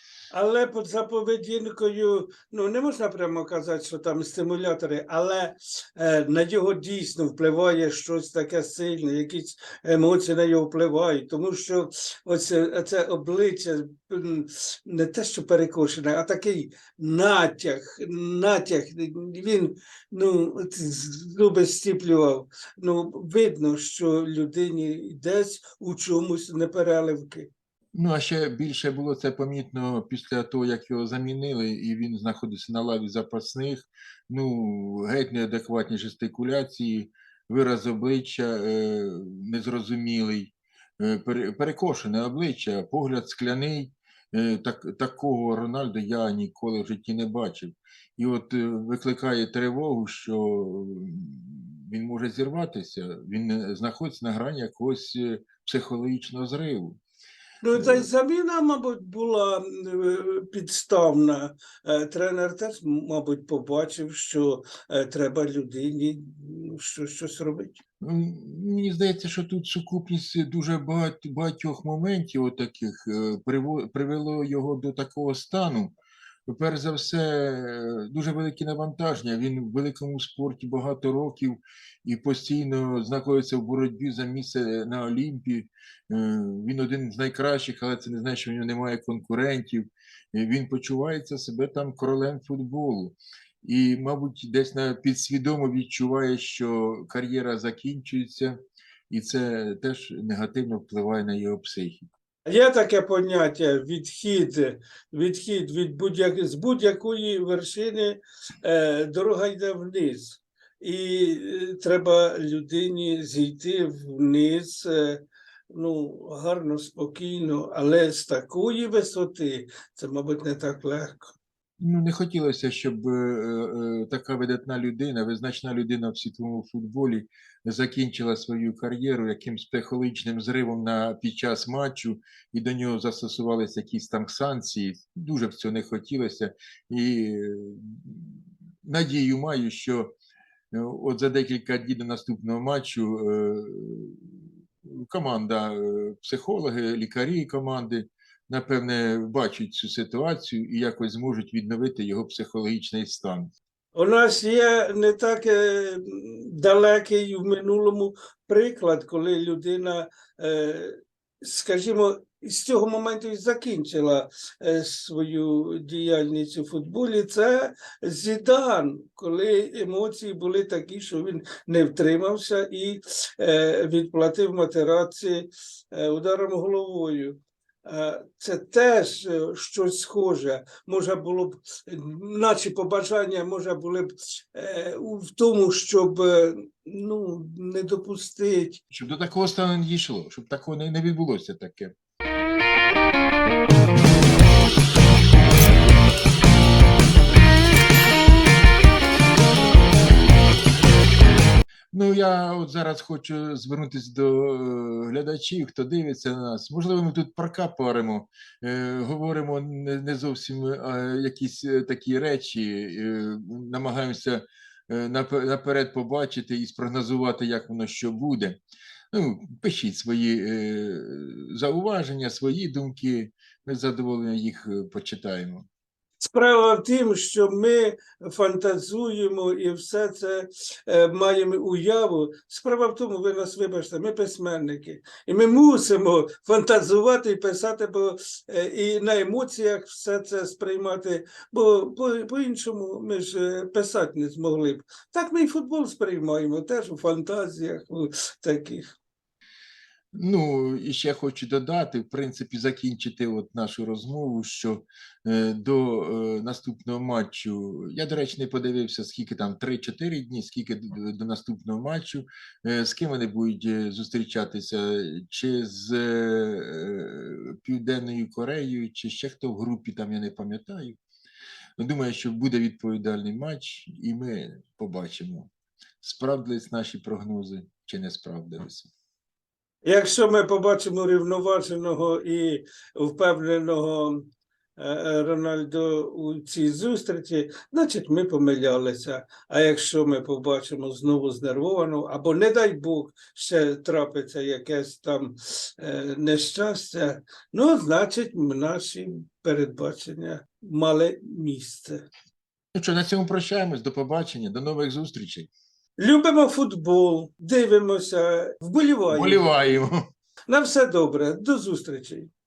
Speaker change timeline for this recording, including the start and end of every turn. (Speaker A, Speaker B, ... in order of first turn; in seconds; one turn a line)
Speaker A: 0.3-27.5
Speaker B: 27.9-57.0
Speaker A: 57.6-67.8
Speaker B: 57.7-58.0
Speaker B: 68.0-75.9
Speaker B: 76.5-98.6
Speaker B: 99.1-102.1
Speaker A: 102.5-121.3
Speaker B: 121.8-140.2
Speaker B: 140.7-153.5
Speaker A: 153.9-188.8
Speaker B: 188.9-191.9
Speaker B: 201.9-218.6
Speaker B: 219.1-225.7
Speaker A: 226.2-248.9
Speaker B: 250.1-271.0
Speaker B: 271.8-275.5
Speaker B: 276.0-278.9
Speaker A: 279.8-302.1
Speaker B: 302.7-305.5
Speaker A: 306.0-309.5
Speaker B: 309.1-310.0
Speaker A: 310.5-312.3